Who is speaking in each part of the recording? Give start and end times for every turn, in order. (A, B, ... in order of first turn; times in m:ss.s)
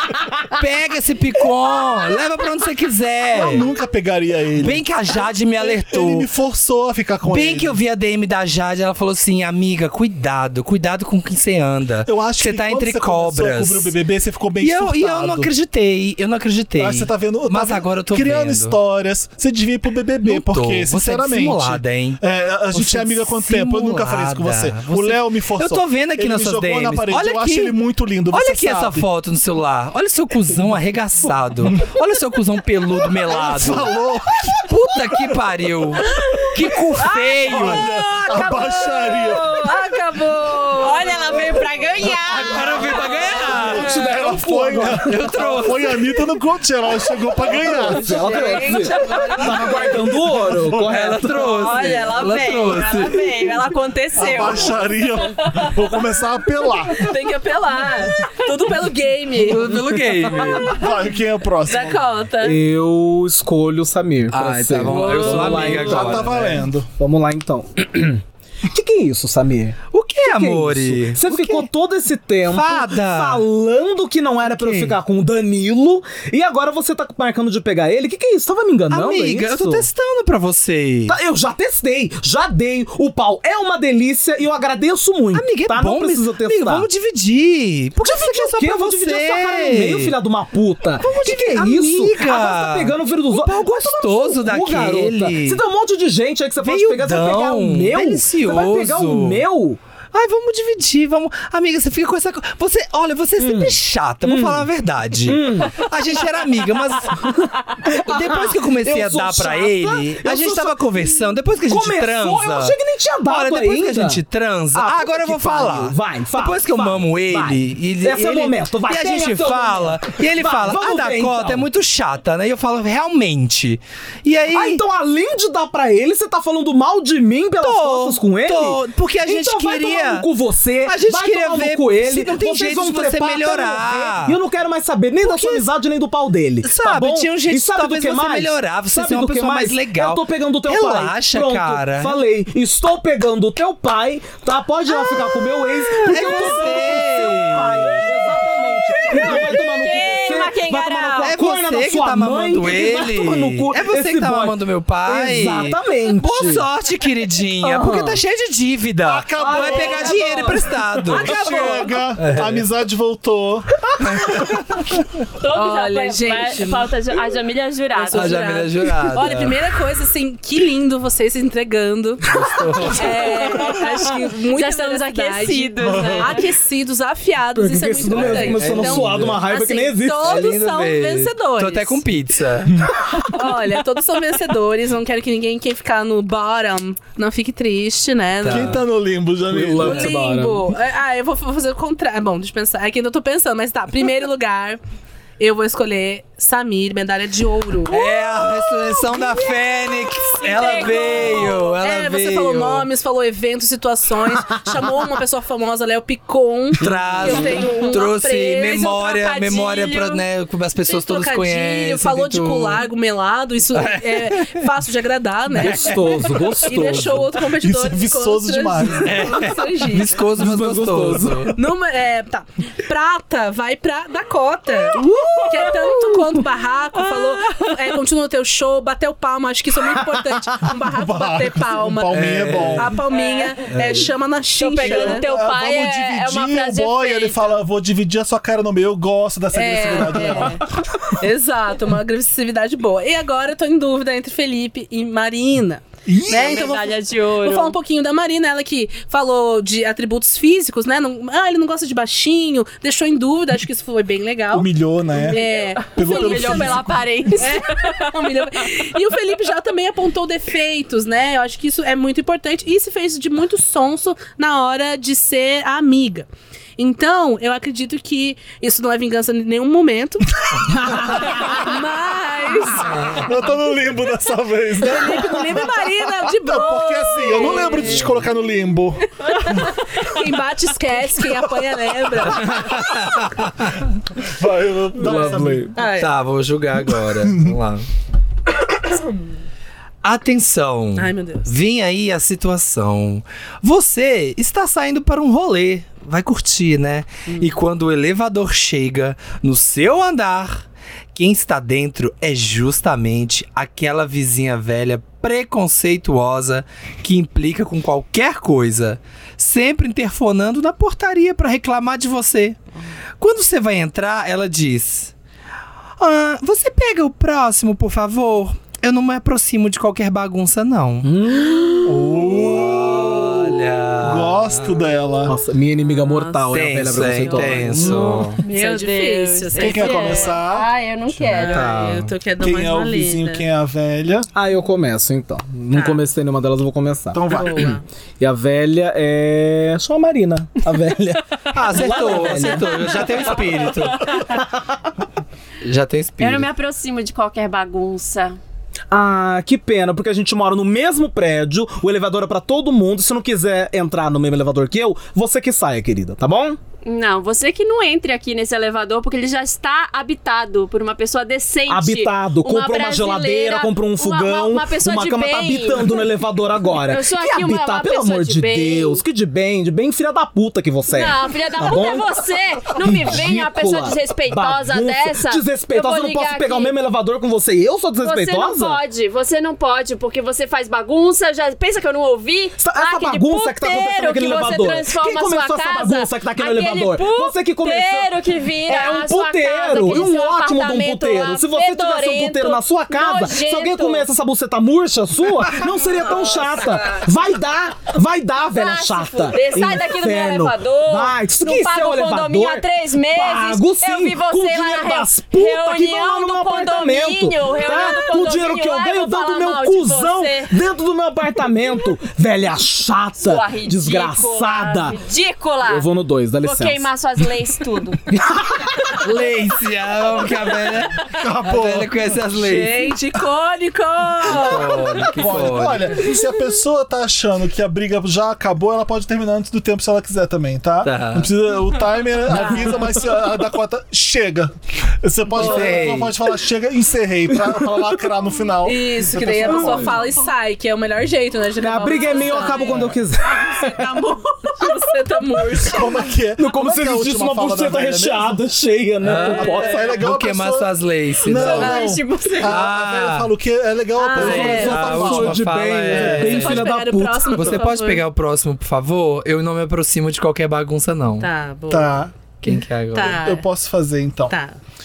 0:00.4-0:03.7 A
0:03.3-0:07.8 B
0:04.6-0:06.3 A
0:07.3-0:13.9 A
0:12.1-0:15.5 B
0:14.6-0:18.8 A
0:16.8-0:29.1 B
0:20.2-0:22.2 A
0:22.7-0:27.8 A
0:28.3-0:33.9 A
0:33.2-0:34.7 B
0:34.6-0:37.9 A
0:36.1-0:41.5 C
0:37.4-0:39.7 B
0:40.7-0:44.1 D
0:42.3-0:43.9 A
0:43.4-0:48.4 B
0:43.5-0:45.6 E
0:44.9-0:46.0 A
0:47.4-0:50.0 C
0:47.5-0:51.6 E
0:48.6-0:49.9 D
0:50.3-0:51.0 B
0:50.8-0:53.3 A
0:51.4-0:55.8 D
0:54.2-0:57.1 B
0:56.9-1:00.8 C
0:59.4-1:00.8 A
1:00.6-1:02.0 B
1:01.6-1:02.6 D
1:02.4-1:06.4 E
1:04.3-1:06.6 A
1:04.9-1:05.8 C
1:05.8-1:06.9 B
1:07.0-1:19.9 E
1:09.9-1:11.7 A
1:12.5-1:13.4 A
1:14.4-1:15.0 A
1:18.9-1:21.2 A
1:21.1-1:26.9 E
1:25.3-1:30.1 A
1:28.0-1:39.8 E
1:31.0-1:35.6 A
1:36.6-1:39.4 A
1:40.1-2:04.8 A
1:43.4-1:44.7 E
1:45.2-1:45.8 E
1:47.2-1:50.8 E
1:51.7-1:54.2 E
1:54.7-2:01.7 E
2:04.5-2:36.7 E
2:07.6-2:10.3 A
2:10.8-2:14.4 A
2:15.2-2:15.7 A
2:16.6-2:22.2 A
2:25.9-2:28.1 A
2:29.0-2:31.4 D
2:29.1-2:29.4 A
2:31.2-2:42.6 A
2:37.6-2:38.2 E
2:39.0-2:44.6 B
2:39.4-2:41.4 E
2:41.2-2:41.9 C
2:44.0-2:45.0 A
2:45.4-2:48.9 D
2:45.5-2:46.9 C
2:48.0-3:02.0 C
2:48.1-2:49.6 A
2:52.2-2:53.6 A
2:53.0-2:56.5 D
2:55.8-2:56.3 B
2:57.6-3:00.4 E
2:58.1-2:59.5 A
3:00.2-3:02.9 A
3:03.1-3:08.8 C
3:08.4-3:08.8 A
3:08.4-3:10.1 B
3:09.5-3:10.7 E
3:09.8-3:14.8 C
3:15.4-3:18.1 C
3:17.9-3:22.9 A
3:20.4-3:21.8 D
3:20.6-3:28.9 C
3:26.8-3:32.9 A
3:28.6-3:30.2 D
3:30.9-3:40.2 C
3:33.7-3:34.6 A
3:35.5-3:37.3 E
3:35.6-3:36.6 A
3:37.6-3:39.4 B
3:39.0-3:41.6 A
3:40.3-3:41.6 E
3:41.5-3:55.3 C
3:45.0-3:45.6 E
3:50.8-3:53.0 B
3:52.1-3:53.0 A
3:53.1-3:53.5 D
3:53.7-3:54.1 A
3:54.6-3:57.6 D
3:54.8-4:00.6 B
3:59.5-4:14.7 C
4:00.2-4:00.6 D
4:06.1-4:06.7 B
4:06.3-4:07.8 D
4:14.5-4:17.0 B
4:15.2-4:18.5 D
4:15.2-4:33.2 C
4:32.9-4:33.2 A
4:33.2-4:35.7 B
4:34.8-4:38.1 C
4:36.3-4:39.1 B
4:37.8-4:38.2 A
4:39.2-4:42.8 C
4:42.3-4:43.9 A
4:44.2-4:45.7 B
4:45.0-4:45.7 E
4:45.0-4:47.9 A
4:45.1-4:46.1 C
4:47.2-4:47.6 B
4:50.0-5:12.6 A
4:51.0-4:51.5 C
4:57.3-4:57.5 C
5:13.2-5:15.1 A
5:16.0-5:21.1 A
5:21.0-5:22.1 E
5:21.8-5:25.4 B
5:22.1-5:24.8 A
5:25.3-5:28.3 E
5:25.8-5:26.4 C
5:26.5-5:28.4 A
5:27.1-5:30.4 C
5:28.4-5:31.7 D
5:29.6-5:30.7 B
5:31.3-5:33.4 C
5:31.3-5:32.1 A
5:32.4-5:34.3 B
5:34.4-5:43.1 E
5:35.7-5:36.0 C
5:37.1-5:37.8 B
5:37.3-5:37.8 C
5:41.5-5:44.2 A
5:41.9-5:42.5 C
5:44.2-5:44.6 E
5:45.6-5:46.5 A
5:46.2-5:48.4 D
5:48.9-5:56.6 E
5:56.8-6:06.1 D
6:01.7-6:12.2 E
6:06.8-6:09.0 D
6:10.9-6:16.7 D
6:12.8-6:18.8 E
6:18.0-6:34.1 D
6:22.6-6:28.2 E
6:28.7-6:55.0 E
6:35.5-6:37.1 D
6:38.5-6:50.5 D
6:53.2-6:55.9 D
6:55.7-6:56.9 E
6:56.4-6:58.0 D
6:58.1-6:58.7 E
6:59.0-7:03.0 A
7:01.2-7:01.9 B
7:02.4-7:05.2 C
7:04.2-7:06.1 A
7:05.1-7:20.0 B
7:10.8-7:11.3 A
7:12.2-7:13.0 C
7:15.4-7:16.2 A
7:15.4-7:15.7 C
7:18.6-7:26.1 C
7:19.4-7:19.8 E
7:21.6-7:24.0 E
7:25.6-7:28.4 B
7:26.4-7:29.8 E
7:29.0-7:31.9 A
7:29.4-7:30.7 B
7:31.2-7:36.6 B
7:31.4-7:32.7 D
7:32.4-7:33.3 A
7:34.0-7:34.9 C
7:34.2-7:36.7 A
7:34.2-7:37.4 E
7:36.2-7:38.0 C
7:37.4-7:41.3 A
7:41.2-7:42.0 C
7:41.7-7:42.1 B
7:42.4-7:43.2 A
7:42.9-7:43.5 C
7:43.0-7:44.4 B
7:44.3-7:44.6 C